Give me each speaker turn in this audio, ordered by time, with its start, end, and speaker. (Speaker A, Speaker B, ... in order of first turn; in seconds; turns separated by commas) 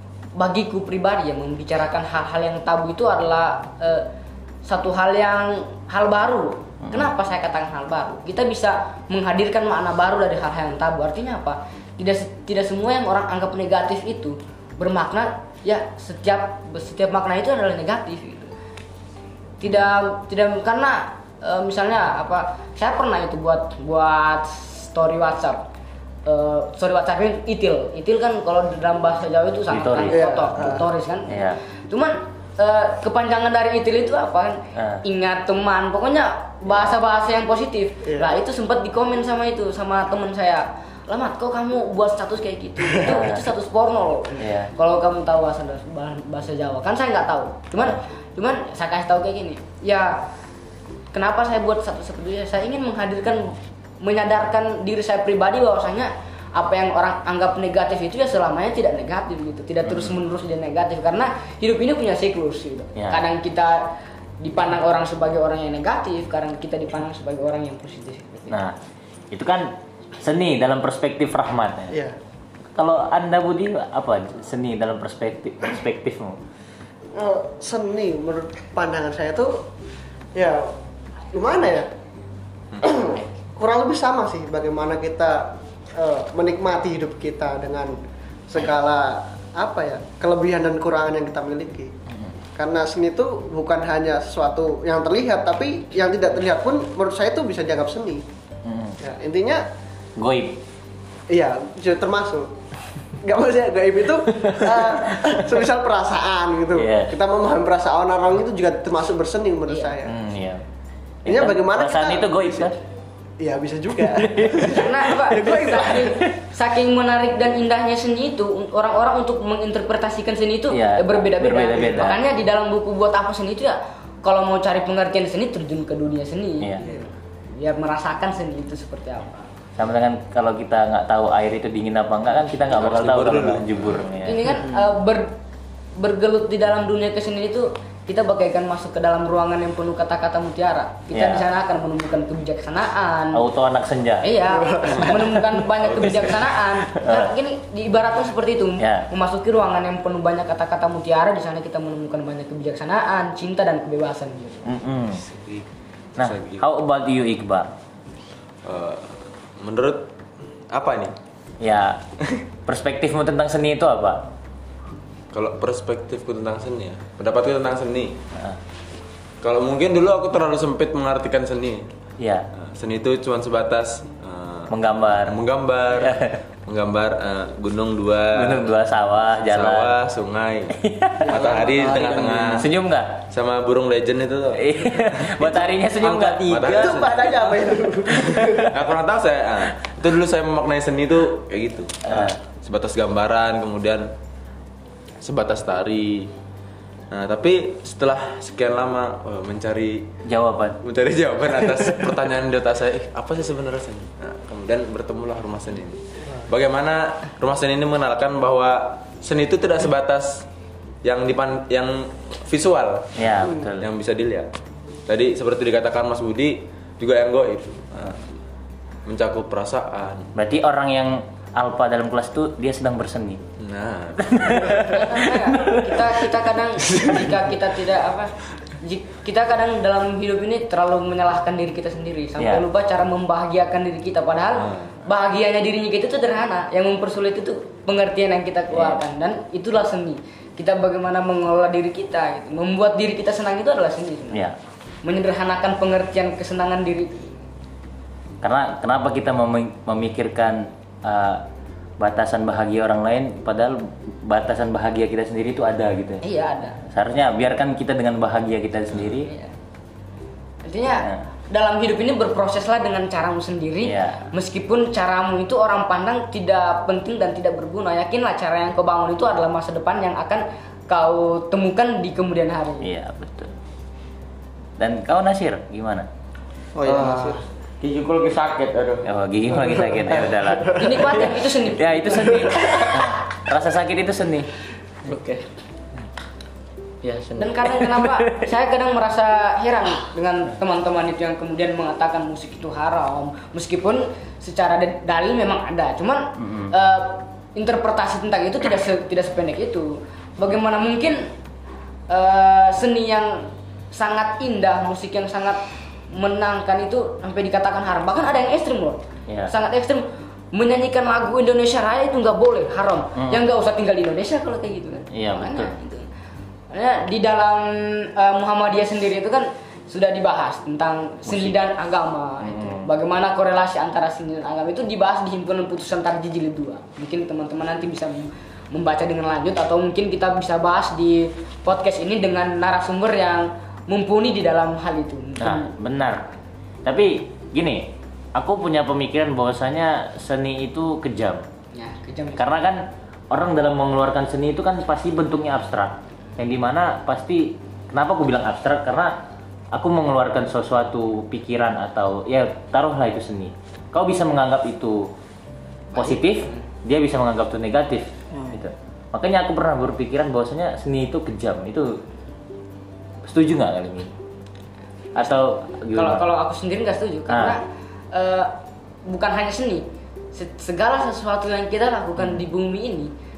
Speaker A: 0.3-4.1, Speaker A: 4.6-18.5, Speaker B: 6.8-7.1, Speaker A: 19.6-25.7, Speaker A: 26.2-50.3, Speaker B: 29.7-30.6, Speaker C: 30.1-30.9, Speaker B: 31.3-31.6, Speaker B: 34.7-35.0, Speaker C: 38.0-38.3, Speaker B: 43.0-43.5, Speaker B: 44.4-44.7, Speaker A: 51.1-68.6, Speaker B: 59.9-60.1, Speaker B: 63.0-63.2, Speaker B: 69.3-72.0, Speaker C: 71.9-72.2, Speaker B: 72.7-76.4, Speaker C: 77.1-79.6, Speaker C: 80.3-80.7, Speaker C: 81.3-81.9, Speaker C: 82.8-87.9, Speaker C: 88.5-91.9, Speaker C: 92.5-98.2, Speaker B: 98.7-99.0, Speaker C: 99.0-99.6, Speaker B: 100.2-100.6, Speaker C: 101.3-102.5, Speaker C: 103.2-110.1, Speaker B: 104.5-105.3, Speaker B: 106.7-107.1, Speaker B: 110.0-110.6, Speaker B: 111.2-112.8, Speaker C: 111.3-112.7, Speaker C: 113.4-116.2, Speaker A: 114.6-129.5, Speaker B: 120.7-122.2, Speaker B: 129.8-134.4, Speaker D: 132.7-133.9, Speaker A: 134.2-135.3, Speaker A: 135.9-143.4, Speaker B: 141.1-141.4, Speaker B: 143.3-144.3, Speaker A: 144.2-154.7, Speaker C: 144.7-145.2, Speaker D: 145.8-146.5, Speaker B: 146.9-147.3, Speaker B: 148.8-149.1, Speaker B: 154.7-155.2, Speaker D: 155.1-156.6, Speaker B: 156.2-157.7, Speaker D: 158.6-160.1, Speaker D: 160.7-161.1, Speaker B: 161.6-162.0, Speaker B: 162.7-164.3, Speaker D: 165.3-168.2, Speaker D: 169.4-171.9, Speaker B: 172.2-172.5, Speaker D: 172.5-178.7, Speaker B: 174.7-175.4, Speaker B: 175.9-176.4, Speaker B: 178.3-179.9, Speaker D: 179.5-180.8, Speaker B: 180.8-181.3, Speaker E: 181.2-182.7, Speaker D: 181.3-182.7, Speaker B: 182.6-183.2, Speaker D: 183.3-185.7, Speaker B: 184.6-187.5, Speaker E: 186.0-187.1, Speaker D: 186.4-187.4, Speaker C: 186.6-188.7, Speaker B: 188.2-188.7, Speaker D: 188.2-194.1, Speaker B: 192.1-192.4, Speaker D: 195.2-196.3, Speaker D: 197.1-200.1, Speaker B: 200.2-200.8, Speaker D: 200.8-210.5, Speaker D: 211.0-214.5, Speaker B: 213.2-213.9, Speaker D: 215.1-218.2, Speaker D: 219.1-220.3, Speaker B: 220.3-223.4, Speaker D: 223.6-224.8, Speaker B: 224.2-226.1, Speaker A: 224.8-244.4, Speaker B: 232.4-232.6, Speaker D: 234.7-234.9, Speaker B: 238.7-239.0, Speaker A: 245.0-247.4, Speaker B: 248.4-251.4, Speaker B: 252.0-256.2, Speaker A: 256.2-256.8, Speaker B: 256.8-259.3, Speaker A: 259.2-259.5, Speaker A: 260.6-272.9, Speaker B: 263.8-264.3, Speaker B: 272.8-273.5, Speaker B: 274.8-276.1, Speaker E: 276.7-277.4, Speaker F: 276.8-279.1, Speaker B: 279.0-284.5, Speaker F: 279.6-280.1, Speaker A: 280.7-282.6, Speaker F: 282.7-283.0, Speaker F: 285.0-285.4, Speaker F: 287.0-287.9, Speaker A: 287.4-301.3, Speaker B: 296.4-296.7, Speaker A: 302.1-316.1, Speaker B: 313.2-313.4, Speaker B: 315.1-315.7, Speaker A: 316.7-335.7, Speaker B: 321.3-321.6, Speaker B: 322.4-322.9, Speaker B: 335.4-336.3, Speaker B: 336.8-341.4, Speaker A: 341.7-342.5, Speaker B: 342.4-355.1, Speaker A: 355.9-356.6, Speaker B: 355.9-362.0, Speaker B: 363.2-364.1, Speaker B: 365.1-366.2, Speaker A: 365.1-368.5, Speaker B: 367.3-367.6, Speaker A: 369.1-373.1